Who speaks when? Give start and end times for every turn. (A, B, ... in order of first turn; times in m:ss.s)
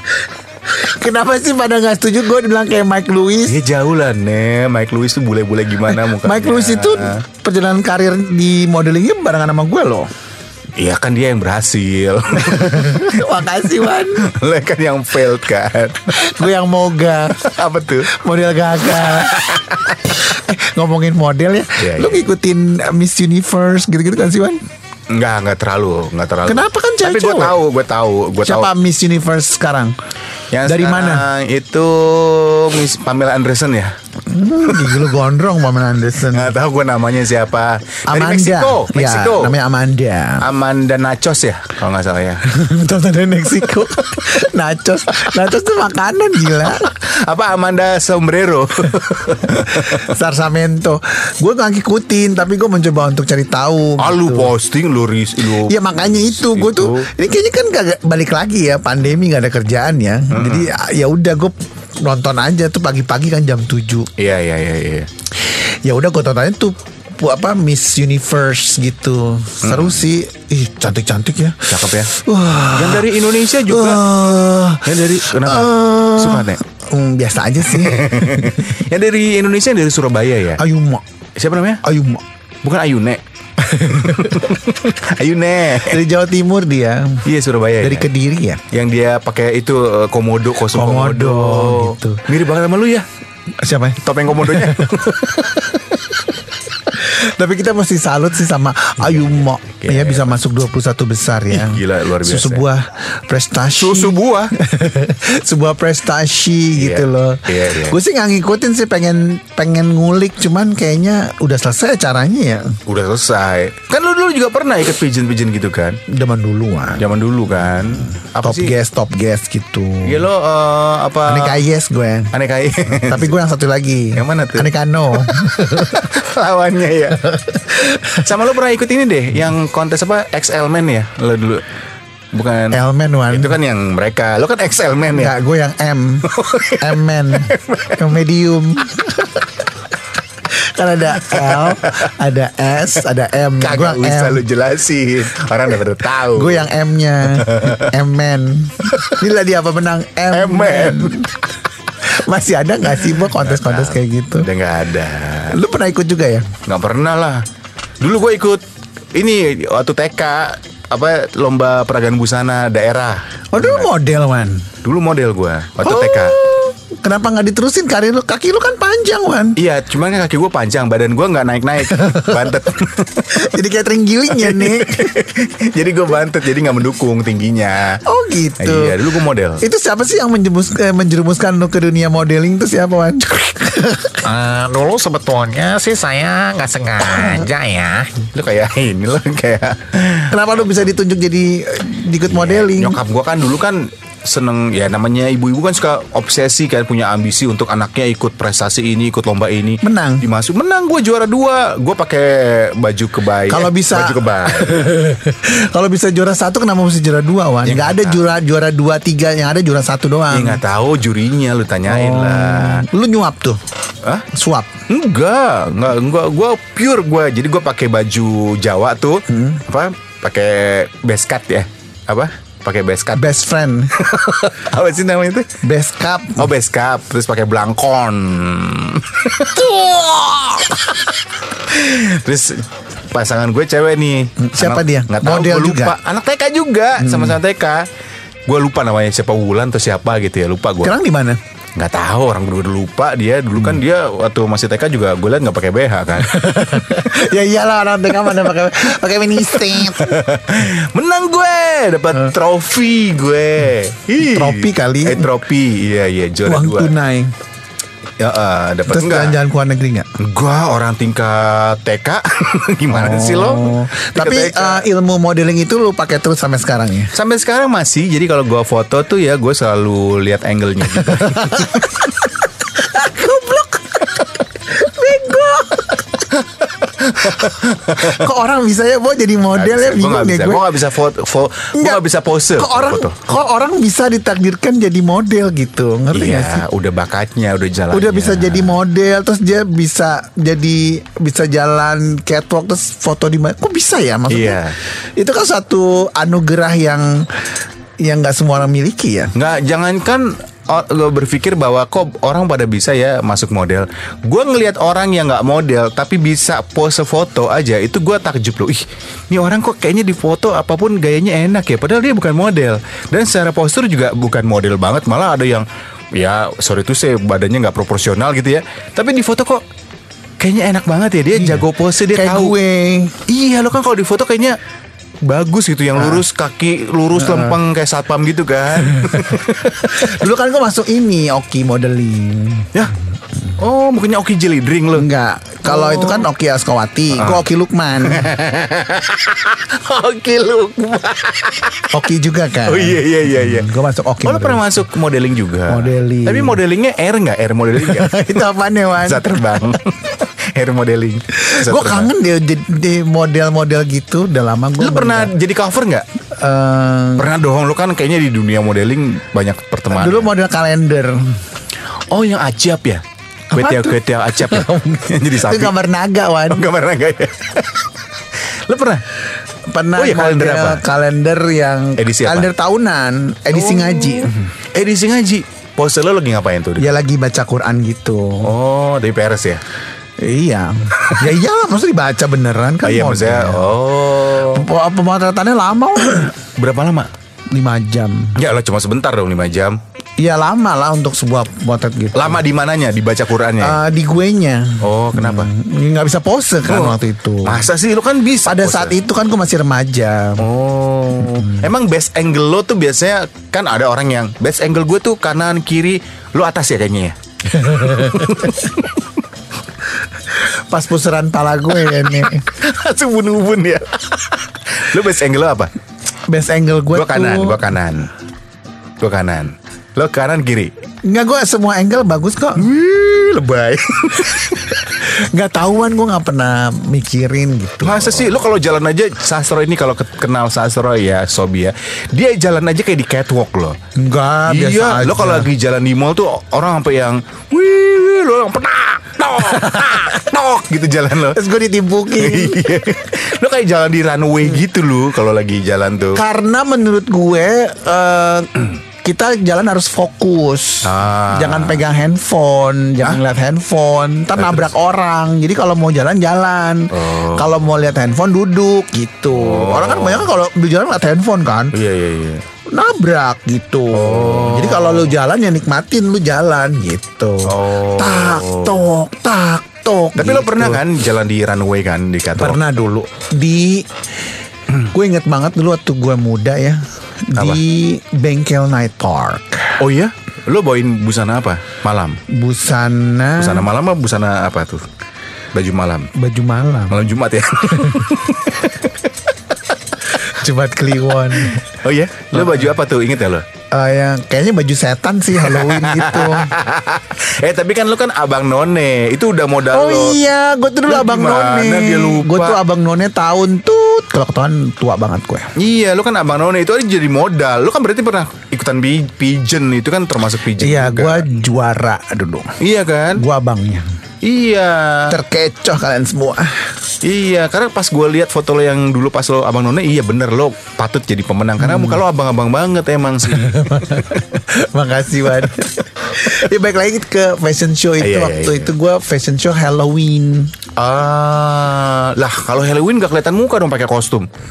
0:00.7-0:03.6 A
0:03.5-0:07.2 B
0:05.9-0:10.1 A
0:10.8-0:13.3 B
0:12.5-0:14.3 A
0:14.2-0:16.3 B
0:16.1-0:17.4 A
0:17.4-0:18.1 B
0:18.1-0:24.6 A
0:21.8-0:22.3 B
0:25.1-0:28.7 B
0:26.4-0:27.6 A
0:28.4-0:30.0 A
0:30.5-0:34.0 B
0:30.6-0:31.3 A
0:34.3-0:36.6 A
0:34.7-0:35.0 B
0:36.3-0:39.6 B
0:38.1-0:40.4 A
0:40.4-0:42.5 B
0:42.5-0:46.8 A
0:43.7-0:44.4 B
0:46.7-0:50.2 B
0:49.7-0:54.5 A
0:54.0-0:57.1 B
0:55.6-1:04.1 A
1:00.3-1:00.7 B
1:04.2-1:05.1 B
1:05.4-1:18.7 A
1:09.6-1:10.1 B
1:11.7-1:12.1 B
1:12.7-1:14.0 B
1:14.8-1:16.6 B
1:17.6-1:20.6 B
1:20.6-1:21.0 A
1:21.4-1:21.8 B
1:21.8-1:22.2 A
1:22.6-1:26.0 B
1:23.8-1:24.5 A
1:25.8-1:27.3 A
1:27.2-1:28.1 B
1:27.8-1:28.6 A
1:28.7-1:33.1 B
1:30.7-1:32.2 A
1:33.6-1:36.3 A
1:34.0-1:35.6 B
1:36.9-1:52.8 A
1:39.8-1:40.4 B
1:41.5-1:42.6 B
1:43.8-1:44.5 B
1:46.8-1:48.0 B
1:52.9-1:56.0 B
1:56.1-1:57.1 A
1:57.0-1:58.8 B
1:58.1-2:00.3 A
2:00.0-2:01.6 B
2:01.2-2:02.3 A
2:02.3-2:03.3 B
2:03.0-2:06.0 A
2:04.2-2:07.3 B
2:07.1-2:08.3 A
2:08.2-2:11.6 B
2:12.3-2:15.4 B
2:12.7-2:13.6 A
2:15.1-2:16.3 A
2:16.3-2:18.0 B
2:16.8-2:19.6 A
2:20.5-2:24.4 A
2:21.2-2:22.1 B
2:23.6-2:26.7 B
2:26.3-2:31.3 A
2:27.3-2:27.9 B
2:30.3-2:31.3 B
2:32.0-2:34.5 A
2:33.1-2:35.6 B
2:35.5-2:36.5 A
2:36.6-2:37.4 B
2:38.0-2:43.9 B
2:43.5-2:44.7 A
2:44.8-2:46.4 B
2:45.8-2:49.6 A
2:49.6-2:53.5 B
2:51.8-2:52.6 A
2:53.3-2:55.1 A
2:54.4-2:58.0 B
2:58.1-2:59.0 A
2:58.6-2:59.6 B
2:59.6-3:04.2 A
3:04.2-3:08.1 C
3:08.2-3:10.5 B
3:10.3-3:13.0 A
3:12.3-3:25.0 B
3:19.8-3:20.2 A
3:23.5-3:30.6 A
3:27.6-3:28.2 B
3:30.3-3:32.9 B
3:31.8-3:33.6 A
3:34.3-3:34.7 A
3:34.9-3:43.3 B
3:39.3-3:39.6 A
3:43.1-3:44.0 A
3:44.0-3:45.5 B
3:45.6-3:46.5 A
3:46.4-3:49.7 B
3:49.5-3:51.0 A
3:51.5-3:57.9 B
3:54.4-3:56.0 A
3:57.0-3:57.4 A
3:58.5-4:01.0 B
4:00.8-4:01.4 A
4:01.8-4:06.4 B
4:06.2-4:10.2 A
4:09.8-4:16.9 B
4:14.2-4:15.4 A
4:16.4-4:17.3 A
4:18.2-4:19.4 B
4:18.9-4:20.1 A
4:20.2-4:24.9 B
4:22.9-4:27.1 A
4:27.1-4:32.0 B
4:31.0-4:32.1 A
4:32.8-4:36.3 A
4:36.4-4:38.1 B
4:37.3-4:40.7 A
4:39.5-4:43.2 B
4:41.8-4:46.7 A
4:46.1-4:48.8 B
4:47.9-4:54.6 A
4:54.3-4:54.8 B
4:55.2-4:57.3 A
4:58.0-4:59.3 A
4:59.4-5:19.6 B
5:20.4-5:22.6 B
5:21.3-5:23.2 A
5:23.3-5:24.6 B
5:25.2-5:30.2 B
5:26.0-5:26.2 A
5:27.2-5:27.6 A
5:28.8-5:32.7 A
5:33.6-5:35.1 B
5:35.0-5:38.3 A
5:35.6-5:36.3 B
5:37.1-5:37.4 B
5:38.0-5:42.0 B
5:41.9-5:44.7 A
5:42.7-5:43.7 B
5:44.2-5:48.4 B
5:45.7-5:46.6 A
5:47.8-5:49.4 A
5:49.0-5:52.1 B
5:51.4-5:55.3 A
5:54.8-5:56.1 B
5:56.3-5:57.3 A
5:57.2-6:00.3 B
5:59.9-6:01.3 A
6:02.1-6:05.8 B
6:03.5-6:06.6 A
6:06.5-6:07.9 B
6:08.4-6:09.0 B
6:09.7-6:14.4 A
6:10.0-6:10.8 B
6:12.0-6:12.5 B
6:13.5-6:16.9 B
6:16.8-6:18.5 A
6:18.4-6:19.6 B
6:20.2-6:23.8 A
6:22.8-6:24.7 B
6:24.3-6:26.3 A
6:26.4-6:27.1 B
6:27.5-6:28.4 A
6:28.4-6:29.8 B
6:30.2-6:32.5 A
6:32.2-6:33.8 B
6:33.6-6:37.7 A
6:34.8-6:35.5 B
6:36.6-6:39.0 B
6:38.4-6:40.5 A
6:40.4-6:49.1 B
6:41.4-6:41.7 A
6:47.6-6:48.6 A
6:50.2-6:52.5 A
6:52.0-6:55.7 B
6:56.3-6:57.7 A
6:56.9-6:58.1 B
6:59.0-7:00.7 B
7:01.0-7:02.7 A
7:02.6-7:04.8 B
7:04.8-7:08.4 A
7:07.8-7:13.8 B
7:14.0-7:15.5 A
7:14.5-7:21.4 B
7:19.4-7:20.1 A
7:21.3-7:22.8 A
7:22.2-7:26.2 B
7:26.2-7:41.8 A
7:30.8-7:31.8 B
7:34.4-7:34.7 B
7:36.9-7:37.5 B
7:39.3-7:40.3 B
7:41.7-7:42.4 B
7:42.7-7:50.8 A
7:43.9-7:45.2 B
7:47.5-7:48.8 B
7:50.2-7:52.6 B
7:52.4-7:53.9 A
7:54.9-7:59.8 A
7:57.4-7:57.6 B
7:59.8-8:02.2 B
8:02.3-8:03.7 A
8:03.4-8:04.9 B
8:05.5-8:06.1 B
8:06.2-8:07.0 A
8:06.9-8:09.0 B
8:10.1-8:11.7 A
8:11.4-8:13.4 B
8:12.3-8:12.7 A
8:13.7-8:16.5 A
8:15.4-8:20.2 B
8:19.7-8:25.5 A
8:20.9-8:22.6 B
8:25.6-8:31.3 B
8:30.6-8:32.5 A
8:32.6-8:33.2 B
8:33.2-8:33.9 A
8:34.2-8:35.2 B
8:35.1-8:36.7 A
8:37.0-8:44.1 B
8:41.6-8:42.0 A
8:43.3-8:50.5 A
8:48.0-8:48.7 B
8:50.8-8:54.3 B